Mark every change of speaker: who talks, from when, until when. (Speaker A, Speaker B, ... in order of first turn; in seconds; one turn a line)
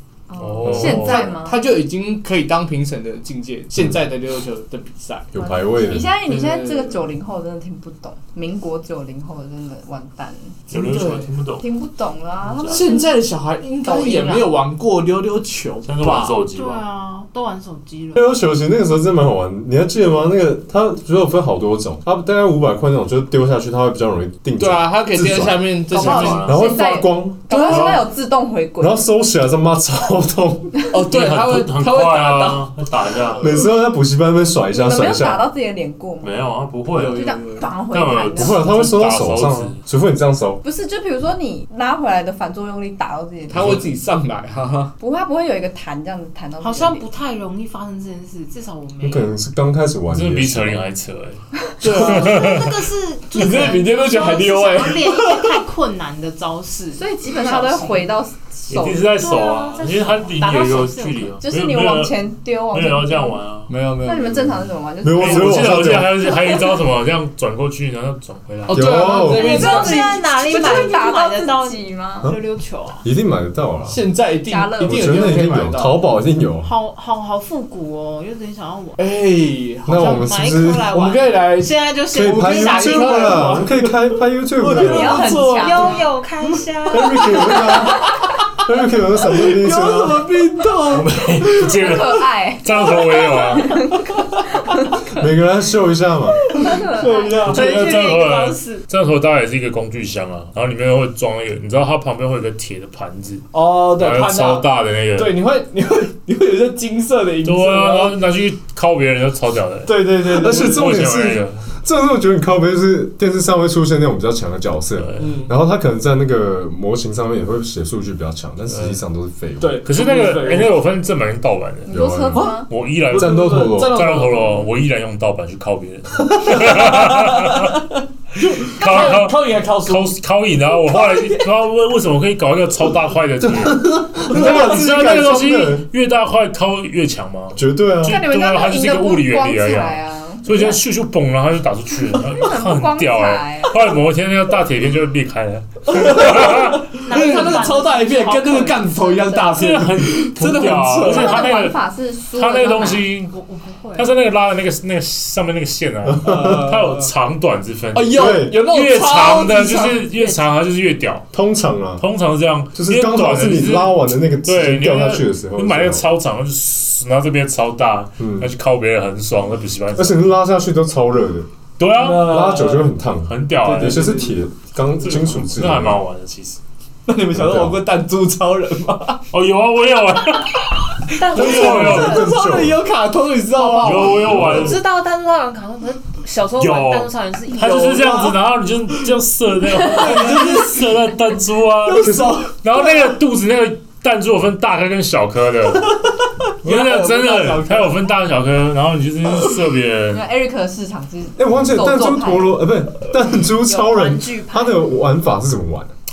Speaker A: 0.3-1.6
Speaker B: 0.4-1.3
Speaker C: 0.7-5.3
Speaker D: 5.3-6.1
Speaker A: 5.4-10.7
Speaker C: 6.2-7.0
Speaker B: 10.7-11.7
Speaker C: 10.7-11.3
Speaker A: 11.6-13.2
Speaker B: 12.4-12.9
Speaker C: 12.7-16.4
Speaker A: 13.8-14.5
Speaker B: 15.8-16.8
Speaker E: 16.5-18.3
Speaker D: 18.1-25.8
Speaker C: 24.6-26.6
Speaker A: 25.9-29.0
Speaker B: 25.9-26.6
Speaker D: 26.4-27.8
Speaker C: 27.5-28.0
Speaker D: 28.8-30.8
Speaker C: 30.9-32.7
Speaker B: 31.1-33.5
Speaker D: 33.4-35.5
Speaker A: 34.7-36.3
Speaker B: 36.2-37.4
Speaker C: 36.9-37.7
Speaker A: 37.1-38.6
Speaker B: 37.9-39.8
Speaker D: 38.3-40.6
Speaker A: 40.6-43.9
Speaker C: 43.5-44.9
Speaker B: 43.5-43.8
Speaker A: 45.0-47.0
Speaker E: 46.6-49.3
Speaker D: 49.0-50.8
Speaker B: 50.1-52.7
Speaker C: 51.8-52.6
Speaker E: 52.0-58.1
Speaker C: 53.3-55.6
Speaker A: 56.9-59.1
Speaker B: 58.7-63.7
Speaker E: 59.2-61.4
Speaker A: 61.4-63.4
Speaker C: 63.7-64.5
Speaker A: 64.0-66.8
Speaker D: 65.0-66.2
Speaker B: 65.1-69.0
Speaker C: 68.7-70.2
Speaker D: 68.7-69.6
Speaker E: 69.2-73.0
Speaker A: 69.2-72.3
Speaker D: 73.0-74.0
Speaker C: 73.9-76.0
Speaker A: 74.4-75.4
Speaker D: 74.8-76.7
Speaker E: 76.6-79.0
Speaker C: 79.0-80.3
Speaker D: 79.8-80.9
Speaker E: 79.9-83.7
Speaker C: 80.8-84.0
Speaker D: 82.1-85.3
Speaker C: 84.6-88.6
Speaker A: 84.7-86.0
Speaker E: 85.5-87.6
Speaker D: 86.9-90.2
Speaker C: 89.3-92.1
Speaker B: 90.9-93.8
Speaker A: 91.7-95.2
Speaker C: 94.1-94.4
Speaker D: 95.2-96.4
Speaker C: 96.4-97.7
Speaker A: 96.5-97.5
Speaker B: 97.4-105.3
Speaker E: 97.4-98.8
Speaker C: 103.5-108.2
Speaker B: 107.4-111.7
Speaker C: 109.8-110.8
Speaker D: 110.2-119.8
Speaker B: 115.0-115.4
Speaker C: 115.2-115.5
Speaker C: 119.6-120.7
Speaker B: 119.8-127.8
Speaker A: 121.8-122.7
Speaker D: 121.9-122.5
Speaker C: 122.3-124.7
Speaker D: 123.1-124.0
Speaker C: 126.4-130.1
Speaker B: 128.4-146.9
Speaker C: 130.8-131.5
Speaker D: 133.6-135.8
Speaker D: 137.5-138.2
Speaker A: 138.0-140.8
Speaker A: 142.2-143.8
Speaker C: 145.9-151.5
Speaker E: 147.0-149.2
Speaker A: 148.8-149.8
Speaker B: 149.5-153.3
Speaker A: 151.0-153.1
Speaker E: 153.3-154.2
Speaker B: 154.0-161.3
Speaker C: 156.2-157.1
Speaker D: 156.2-156.6
Speaker C: 157.9-160.1
Speaker D: 158.1-158.6
Speaker D: 161.3-162.0
Speaker B: 162.0-170.3
Speaker D: 162.7-166.1
Speaker D: 168.2-168.5
Speaker D: 169.9-171.5
Speaker B: 171.8-172.5
Speaker C: 172.0-172.9
Speaker D: 172.2-176.0
Speaker B: 173.2-174.2
Speaker C: 173.6-174.4
Speaker B: 175.0-176.6
Speaker C: 177.1-179.2
Speaker D: 177.3-177.8
Speaker B: 179.3-182.3
Speaker E: 181.2-182.2
Speaker C: 181.2-184.5
Speaker D: 181.3-182.8
Speaker A: 183.5-184.4
Speaker B: 183.8-184.8
Speaker D: 184.3-184.8
Speaker E: 184.6-188.0
Speaker B: 186.6-195.9
Speaker C: 187.6-188.4
Speaker C: 189.7-191.0
Speaker C: 191.8-193.1
Speaker D: 192.0-192.4
Speaker C: 195.7-198.1
Speaker B: 196.6-200.2
Speaker A: 200.1-202.6
Speaker D: 201.4-205.9
Speaker E: 203.6-204.8